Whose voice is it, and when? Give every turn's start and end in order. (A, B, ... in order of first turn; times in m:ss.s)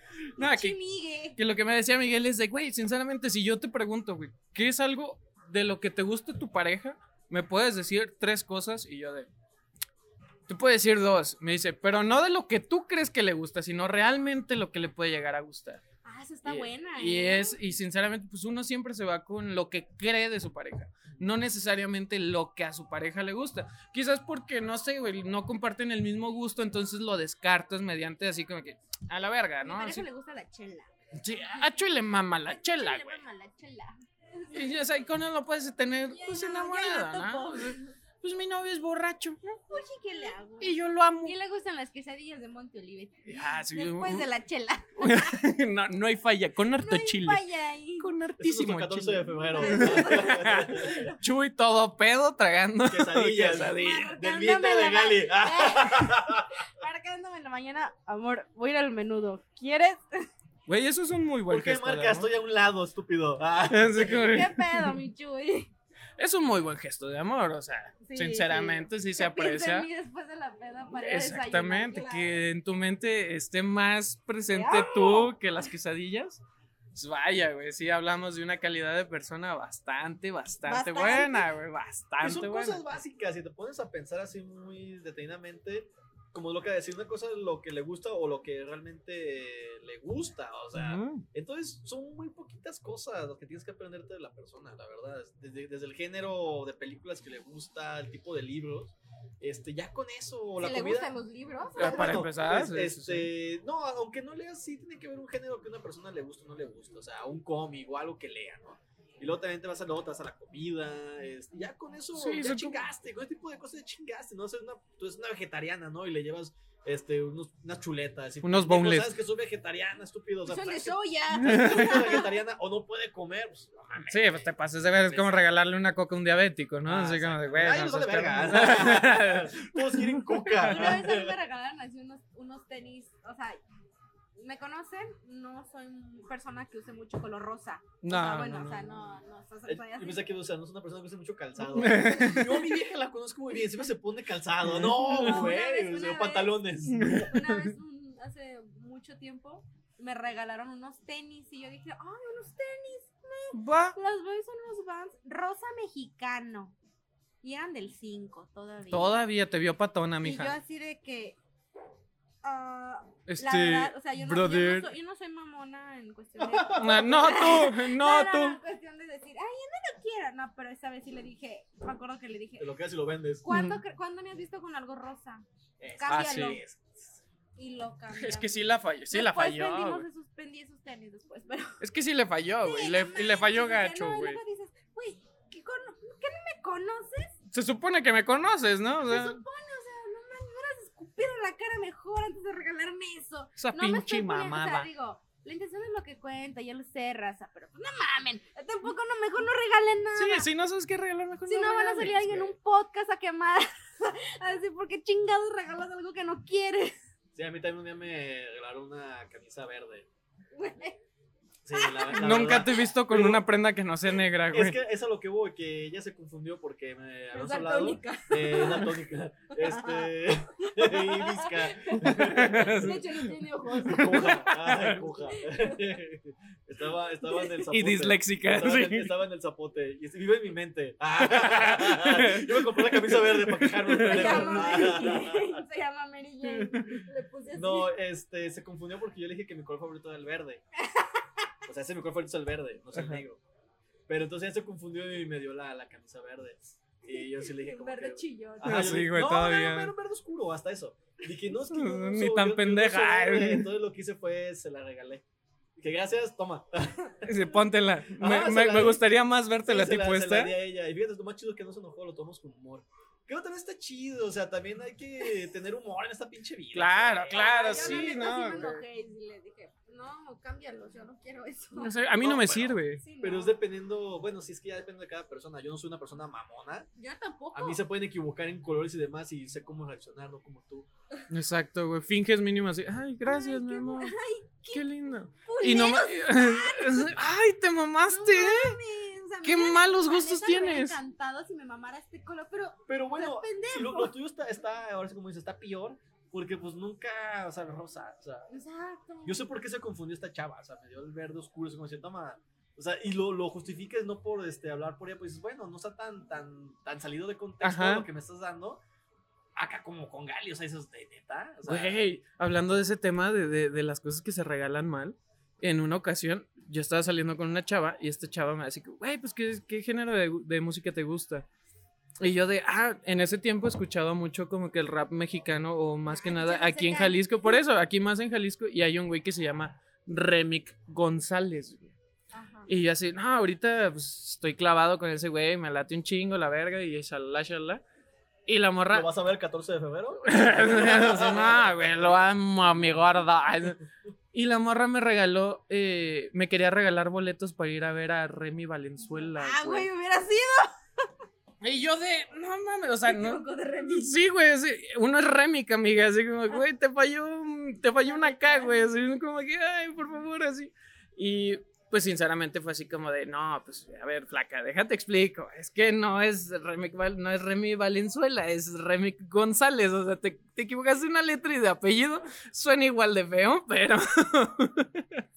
0:00.4-0:00.8 A
0:00.4-0:01.4 B
0:01.4-0:09.3 A
0:10.5-0:15.8 A
0:16.0-0:17.6 B
0:16.4-0:30.1 A
0:29.6-0:30.9 B
0:31.1-0:33.2 A
0:31.5-0:31.8 B
0:32.5-0:34.7 B
0:34.5-0:39.6 A
0:36.1-0:37.9 B
0:39.7-0:45.4 B
0:40.6-0:41.4 A
0:43.3-0:44.3 A
0:45.0-0:47.4 A
0:46.8-0:48.1 B
0:48.0-0:54.2 A
0:48.4-0:51.0 C
0:49.4-0:51.2 B
0:52.9-0:56.6 C
0:53.6-1:00.3 B
1:00.7-1:02.3 A
1:01.5-1:04.2 C
1:03.6-1:05.0 A
1:04.0-1:05.7 B
1:06.2-1:09.9 A
1:08.0-1:12.4 B
1:10.9-1:16.4 A
1:14.5-1:15.3 B
1:17.0-1:22.8 A
1:20.6-1:21.5 B
1:22.2-1:41.1 C
1:30.7-1:31.2 A
1:40.6-1:42.3 B
1:41.8-2:04.5 C
1:41.8-1:43.3 A
1:52.1-1:52.8 A
1:58.4-1:59.1 A
2:00.5-2:02.3 B
2:01.4-2:02.1 A
2:04.1-2:10.9 A
2:05.1-2:05.4 C
2:06.9-2:11.3 C
2:10.6-2:13.6 B
2:14.4-2:20.3 B
2:18.0-2:19.0 A
2:19.7-2:27.3 C
2:21.7-2:22.8 A
2:25.0-2:36.8 B
2:25.1-2:25.5 A
2:26.9-2:27.6 A
2:33.5-2:34.0 A
2:37.4-2:39.3 B
2:38.9-2:40.6 A
2:40.2-2:41.4 B
2:42.4-2:52.7 B
2:43.3-2:44.9 A
2:46.4-2:47.4 C
2:46.8-2:48.6 A
2:52.6-2:53.4 C
2:53.4-2:56.6 B
2:53.5-2:53.8 A
2:55.8-2:57.0 C
2:56.1-2:56.6 A
2:57.6-3:01.8 B
2:58.1-3:00.0 A
3:01.8-3:04.4 A
3:02.6-3:07.3 B
3:07.5-3:09.4 A
3:09.1-3:20.5 B
3:13.6-3:14.9 A
3:20.2-3:22.4 A
3:21.5-3:27.0 B
3:27.3-3:30.1 C
3:30.6-3:31.0 B
3:31.6-3:33.4 C
3:31.7-3:32.9 B
3:32.1-3:34.8 A
3:34.5-3:43.0 C
3:37.3-3:39.0 B
3:39.5-3:45.9 B
3:42.0-3:43.3 A
3:43.8-3:55.6 C
3:47.2-3:47.6 B
3:47.7-3:49.1 A
3:51.2-3:55.0 A
3:54.0-3:58.0 B
3:56.5-3:57.0 A
3:57.5-4:00.6 C
4:00.9-4:01.3 B
4:01.7-4:03.4 C
4:02.9-4:03.2 A
4:04.1-4:15.2 C
4:07.1-4:08.9 B
4:08.6-4:09.9 A
4:11.7-4:13.7 A
4:15.8-4:17.4 C
4:17.2-4:20.5 A
4:18.1-4:19.0 C
4:19.6-4:28.7 C
4:26.7-4:28.8 A
4:27.3-4:32.0 B
4:31.8-4:33.0 A
4:32.2-4:36.9 C
4:33.0-4:33.6 B
4:37.0-4:37.8 B
4:37.5-4:40.9 C
4:41.3-4:44.1 A
4:43.2-4:44.9 B
4:44.7-4:48.8 A
4:45.4-4:47.2 B
4:48.0-4:54.1 B
4:49.4-4:51.0 A
4:52.9-4:58.5 C
4:58.5-4:59.4 B
4:59.2-5:08.8 C
5:07.6-5:08.1 A
5:09.6-5:12.0 C
5:11.7-5:21.4 A
5:22.2-5:31.9 A
5:26.1-5:27.6 B
5:32.3-5:32.7 B
5:32.7-5:37.8 A
5:38.5-5:39.1 A
5:38.9-5:42.2 C
5:40.2-5:49.9 A
5:49.4-5:50.7 B
5:51.6-6:15.2 A
5:53.0-5:54.1 B
5:58.0-5:58.9 B